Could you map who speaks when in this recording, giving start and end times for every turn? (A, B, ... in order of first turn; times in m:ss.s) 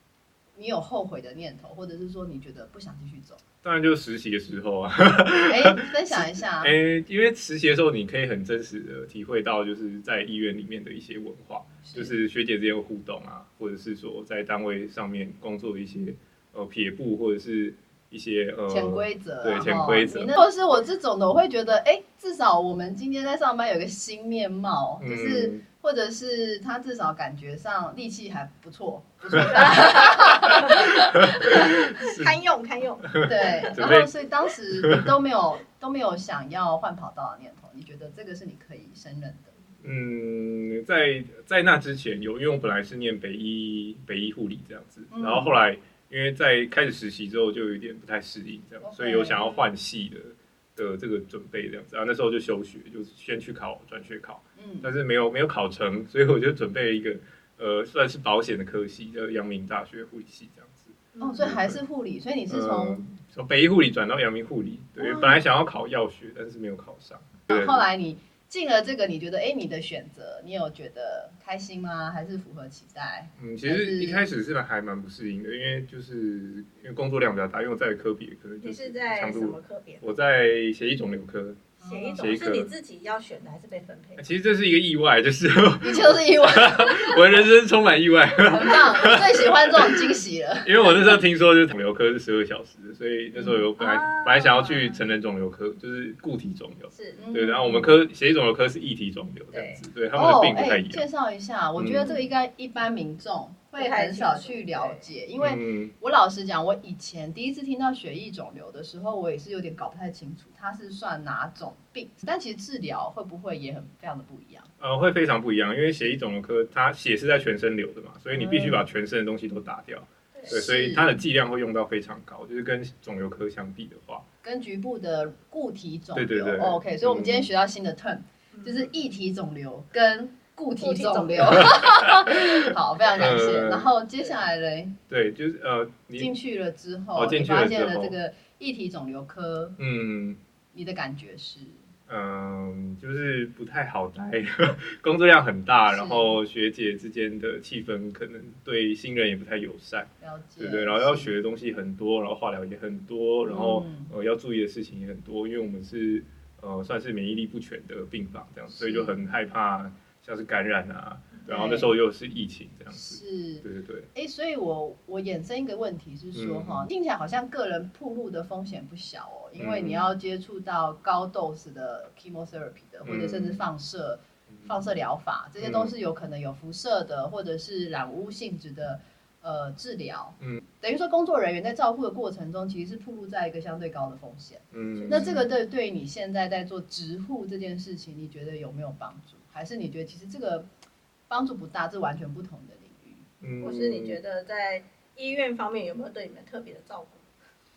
0:00.6-0:03.4 A
0:03.6-0:20.4 B
0:05.5-0:06.8 A
0:11.8-0:12.1 A
0:18.7-0:31.6 A
0:25.0-0:25.6 B
0:29.4-0:33.8 C
0:30.5-0:32.4 B
0:33.1-0:34.1 B
0:33.2-0:39.6 A
0:34.8-0:35.1 B
0:39.8-1:01.8 B
0:45.1-0:45.5 A
0:48.8-0:49.5 A
0:54.6-0:54.9 A
1:01.2-1:01.5 C
1:01.2-1:03.0 A
1:02.5-1:07.8 B
1:05.0-1:05.4 A
1:07.5-1:14.3 A
1:13.4-1:22.7 B
1:18.6-1:20.0 C
1:21.8-1:22.2 A
1:21.8-1:24.3 C
1:24.2-1:41.0 B
1:25.8-1:27.4 A
1:28.4-1:31.2 A
1:33.8-1:35.0 C
1:36.9-1:37.2 C
1:37.2-1:38.0 A
1:39.5-1:39.8 C
1:40.1-1:54.7 A
1:41.8-1:42.2 B
1:43.8-1:45.1 C
1:45.4-1:45.9 B
1:54.8-2:04.3 B
1:58.3-1:58.9 A
2:00.3-2:00.6 C
2:00.5-2:01.1 A
2:04.4-2:15.0 A
2:06.2-2:07.5 B
2:08.5-2:08.9 C
2:10.8-2:11.8 C
2:11.6-2:12.6 B
2:13.1-2:13.9 B
2:15.1-2:16.3 B
2:16.2-2:19.8 A
2:17.2-2:18.2 B
2:19.8-2:20.4 B
2:20.7-2:21.9 A
2:22.1-2:44.1 B
2:25.9-2:26.4 A
2:30.2-2:31.3 A
2:33.5-2:34.1 A
2:38.7-2:39.2 A
2:41.5-2:41.9 A
2:42.9-3:10.7 A
2:46.4-2:46.9 B
2:49.6-2:50.1 B
2:53.0-2:53.6 B
2:55.6-2:55.9 B
3:04.7-3:05.4 B
3:05.0-3:05.4 C
3:11.3-3:13.2 A
3:13.4-3:14.2 B
3:13.6-3:17.3 C